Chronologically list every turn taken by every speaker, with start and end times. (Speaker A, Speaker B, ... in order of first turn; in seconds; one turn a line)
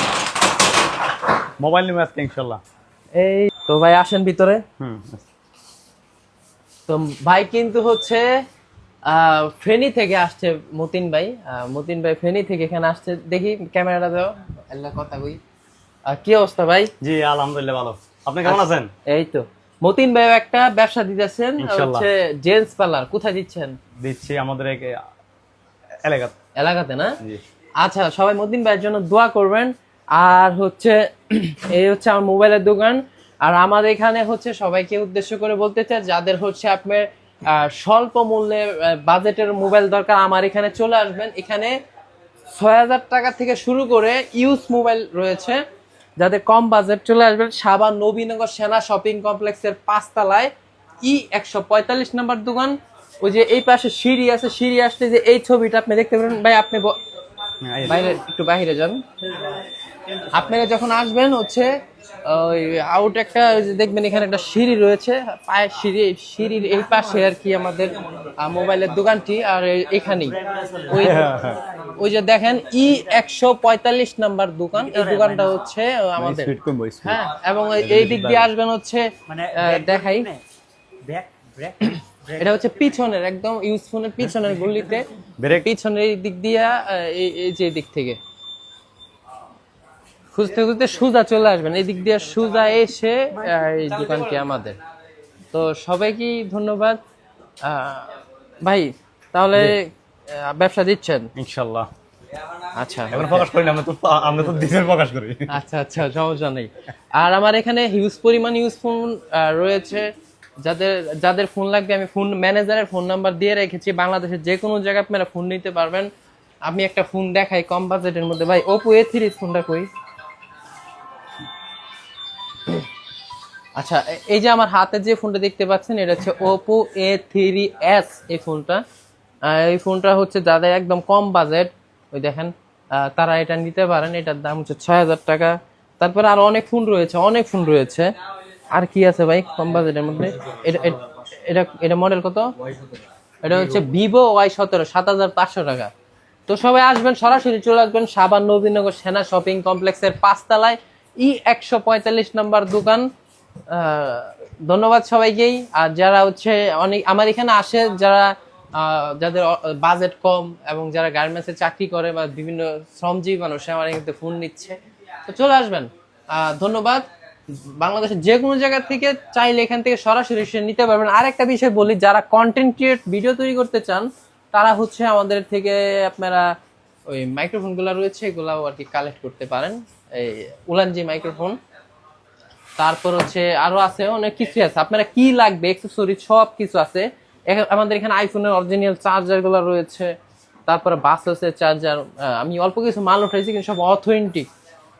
Speaker A: 1.6-2.6
Speaker B: 3.1-4.6
Speaker A: 4.8-5.2
Speaker B: 6.9-8.3
Speaker B: 9.1-15.4
Speaker B: 16.1-16.9
Speaker A: 17.0-18.9
Speaker B: 18.4-23.8
Speaker A: 21.6-22.1
Speaker A: 24.0-25.0
Speaker A: 26.0-26.3
Speaker B: 26.6-27.2
Speaker B: 27.8-41.8
Speaker B: 42.5-45.6
Speaker B: 46.2-56.9
Speaker A: 57.6-58.1
Speaker B: 57.8-59.0
Speaker B: 60.3-61.7
Speaker B: 62.2-70.4
Speaker C: 70.4-71.5
Speaker B: 70.9-71.3
Speaker A: 71.0-71.6
Speaker B: 72.0-80.3
Speaker C: 74.9-75.4
Speaker A: 76.2-77.2
Speaker A: 77.8-78.5
Speaker C: 79.3-80.4
Speaker C: 81.0-82.4
Speaker B: 81.8-88.2
Speaker A: 85.4-85.7
Speaker B: 90.3-94.8
Speaker B: 95.5-97.0
Speaker B: 97.6-101.3
Speaker A: 101.3-101.9
Speaker B: 102.7-103.5
Speaker A: 103.1-105.5
Speaker B: 105.5-116.1
Speaker B: 116.6-119.9
Speaker B: 123.8-128.8
Speaker B: 129.4-138.1
Speaker B: 138.7-142.5
Speaker B: 143.4-145.9
Speaker B: 146.5-153.1
Speaker B: 153.7-176.5
Speaker B: 177.1-181.6
Speaker B: 182.8-190.1
Speaker B: 190.7-194.5